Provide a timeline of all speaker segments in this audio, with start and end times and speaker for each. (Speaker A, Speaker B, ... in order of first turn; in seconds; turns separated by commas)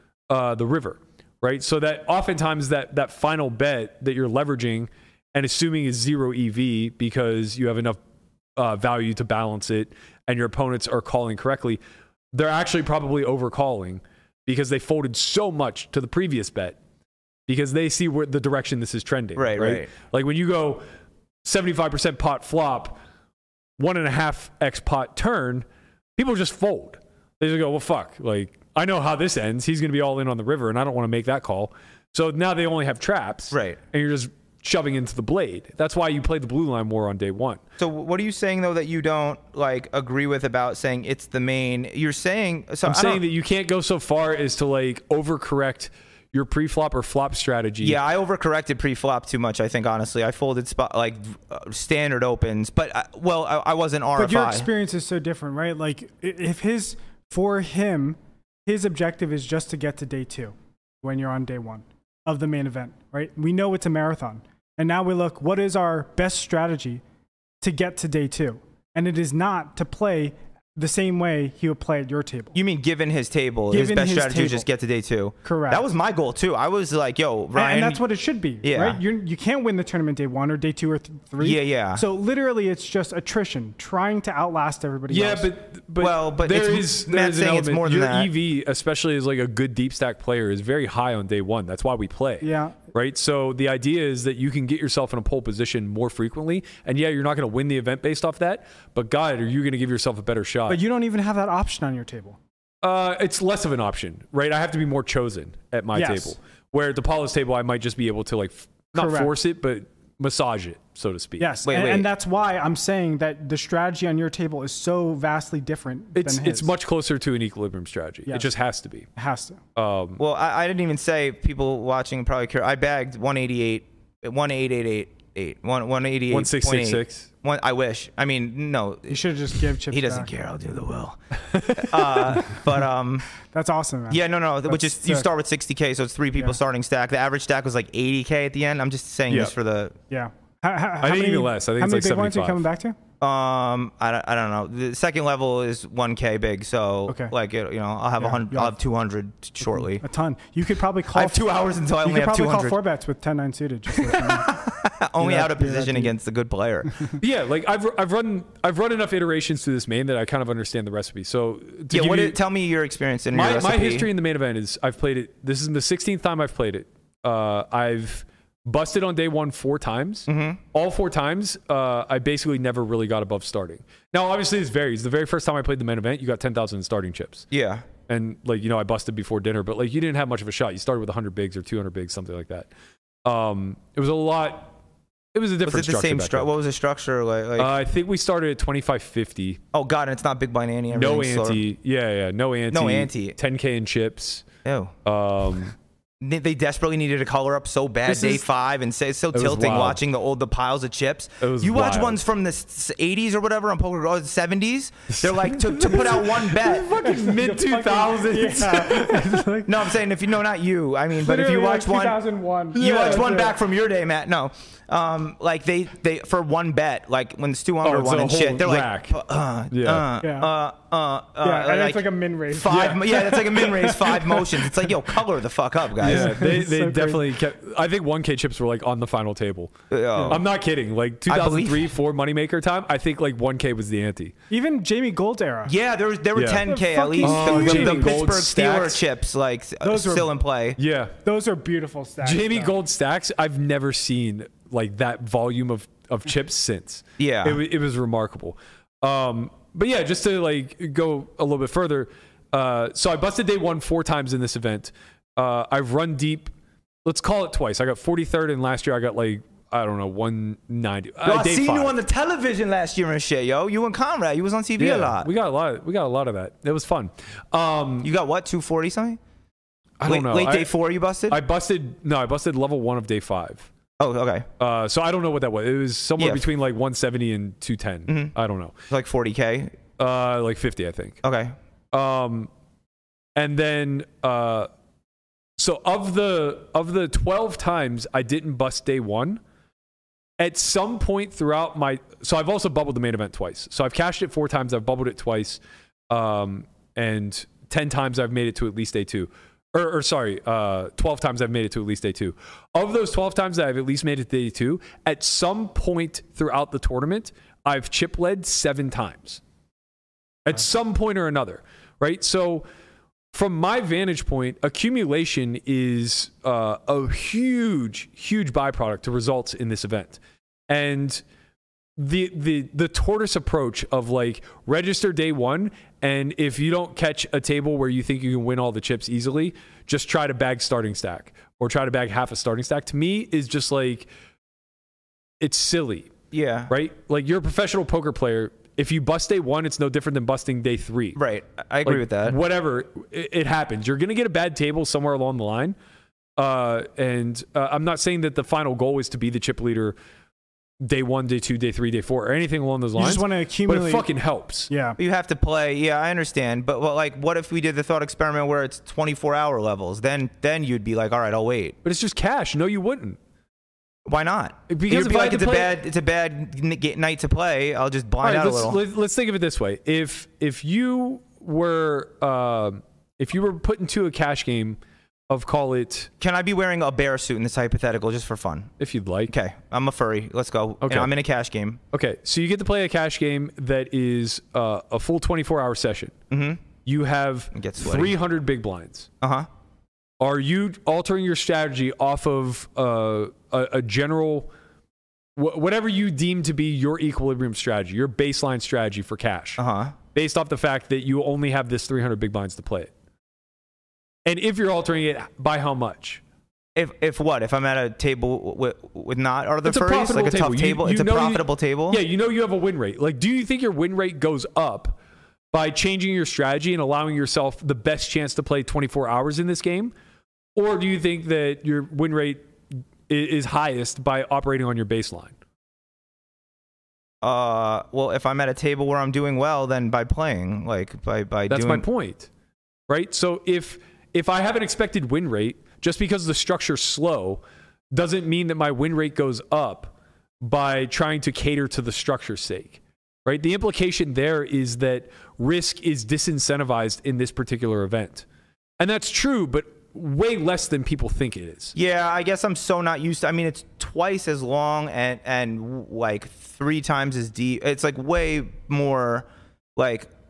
Speaker A: 0.3-8.0, Speaker A: 8.6-11.8, Speaker A: 12.3-16.8, Speaker A: 17.5-20.8, Speaker B: 19.4-19.9, Speaker A: 21.4-23.0, Speaker A: 23.8-25.6, Speaker A: 26.2-37.6, Speaker B: 33.5-33.8, Speaker B: 37.8-43.2, Speaker A: 42.8-48.0, Speaker B: 47.8-54.7, Speaker C: 54.2-67.0, Speaker C: 67.6-72.5, Speaker B: 72.5-78.0, Speaker C: 73.7-74.7, Speaker C: 75.4-75.8, Speaker C: 77.5-85.5, Speaker B: 78.6-79.0, Speaker B: 81.4-82.0, Speaker A: 85.1-100.8, Speaker B: 86.0-88.3, Speaker C: 92.4-92.8, Speaker C: 100.7-102.4, Speaker A: 102.8-111.5, Speaker C: 106.0-106.4, Speaker C: 109.0-109.3, Speaker C: 111.4-116.7, Speaker B: 111.6-112.1, Speaker A: 116.1-119.0, Speaker C: 119.2-119.6, Speaker A: 119.8-120.2, Speaker B: 120.2-129.2, Speaker A: 126.3-127.3, Speaker C: 129.1-130.3, Speaker B: 129.9-133.3, Speaker A: 131.5-132.4, Speaker C: 133.4-135.3, Speaker B: 134.1-139.9, Speaker A: 139.3-139.5, Speaker C: 140.1-143.0, Speaker A: 141.0-142.6, Speaker B: 143.2-150.0, Speaker C: 147.1-147.3, Speaker C: 148.2-148.8, Speaker C: 150.0-151.5, Speaker B: 151.1-152.8, Speaker C: 152.0-154.6, Speaker B: 153.9-157.0, Speaker C: 155.2-156.1, Speaker A: 157.2-162.4, Speaker B: 161.9-164.1, Speaker A: 163.3-177.5, Speaker B: 170.3-170.6, Speaker B: 177.5-177.9, Speaker A: 178.1-182.7, Speaker A: 183.2-184.7, Speaker A: 185.3-186.5, Speaker B: 185.6-187.7, Speaker A: 187.6-189.6, Speaker B: 189.7-191.6, Speaker A: 190.9-194.4, Speaker B: 192.7-193.4, Speaker B: 194.6-194.9, Speaker A: 195.1-195.8, Speaker B: 196.2-206.9, Speaker A: 198.1-198.4, Speaker A: 199.3-200.0, Speaker A: 201.4-202.2, Speaker A: 205.1-209.5, Speaker C: 207.0-209.9, Speaker B: 209.7-212.2, Speaker C: 211.2-213.6, Speaker A: 212.7-213.3, Speaker B: 212.8-226.4, Speaker A: 217.8-219.1, Speaker A: 219.7-220.1, Speaker C: 220.2-220.5, Speaker C: 221.4-224.4, Speaker A: 226.0-229.7, Speaker C: 226.0-227.4, Speaker B: 229.9-230.4, Speaker A: 230.3-234.3, Speaker B: 231.3-231.9, Speaker C: 234.5-235.7, Speaker B: 235.7-240.8, Speaker A: 236.3-236.7, Speaker C: 236.7-238.3, Speaker A: 237.2-239.0, Speaker C: 239.8-240.3, Speaker A: 240.8-241.1, Speaker C: 241.2-242.8, Speaker A: 242.2-256.5, Speaker B: 247.2-247.6, Speaker A: 257.1-262.0, Speaker B: 261.2-265.3, Speaker A: 264.8-268.1, Speaker B: 268.0-269.2, Speaker A: 270.0-270.7, Speaker B: 270.1-271.4, Speaker A: 271.3-273.7, Speaker B: 274.0-274.5, Speaker A: 274.6-278.7, Speaker B: 276.2-276.5, Speaker B: 278.1-278.3, Speaker B: 278.9-279.8, Speaker A: 280.0-281.2, Speaker B: 281.2-281.6, Speaker A: 281.9-282.5, Speaker A: 283.4-284.7, Speaker A: 285.6-289.4, Speaker A: 290.4-309.4, Speaker A: 310.5-312.7, Speaker A: 313.3-321.2, Speaker A: 322.0-334.1, Speaker A: 335.4-336.1, Speaker B: 336.3-336.7, Speaker A: 336.7-341.2, Speaker B: 341.1-342.4, Speaker A: 341.9-345.8, Speaker A: 346.4-350.0, Speaker A: 350.8-354.7, Speaker C: 353.0-354.1, Speaker C: 354.7-355.0, Speaker B: 355.0-361.8, Speaker A: 361.8-363.2, Speaker B: 364.1-368.8, Speaker A: 364.7-365.8, Speaker A: 368.2-376.1, Speaker B: 376.2-378.7, Speaker A: 378.8-379.3, Speaker B: 379.3-381.8, Speaker A: 380.8-381.1, Speaker A: 381.9-386.1, Speaker B: 386.3-386.6, Speaker A: 386.8-389.1, Speaker B: 387.5-388.1, Speaker B: 389.2-389.5, Speaker A: 390.2-394.5, Speaker A: 395.4-399.6, Speaker B: 399.6-399.9, Speaker A: 400.1-402.9, Speaker A: 404.3-406.2, Speaker B: 406.8-412.0, Speaker A: 409.6-415.0, Speaker A: 415.5-419.9, Speaker A: 420.6-422.5, Speaker A: 423.1-425.3, Speaker B: 427.2-431.9, Speaker A: 431.5-432.3, Speaker A: 432.9-448.3, Speaker A: 448.8-451.7, Speaker B: 451.8-460.1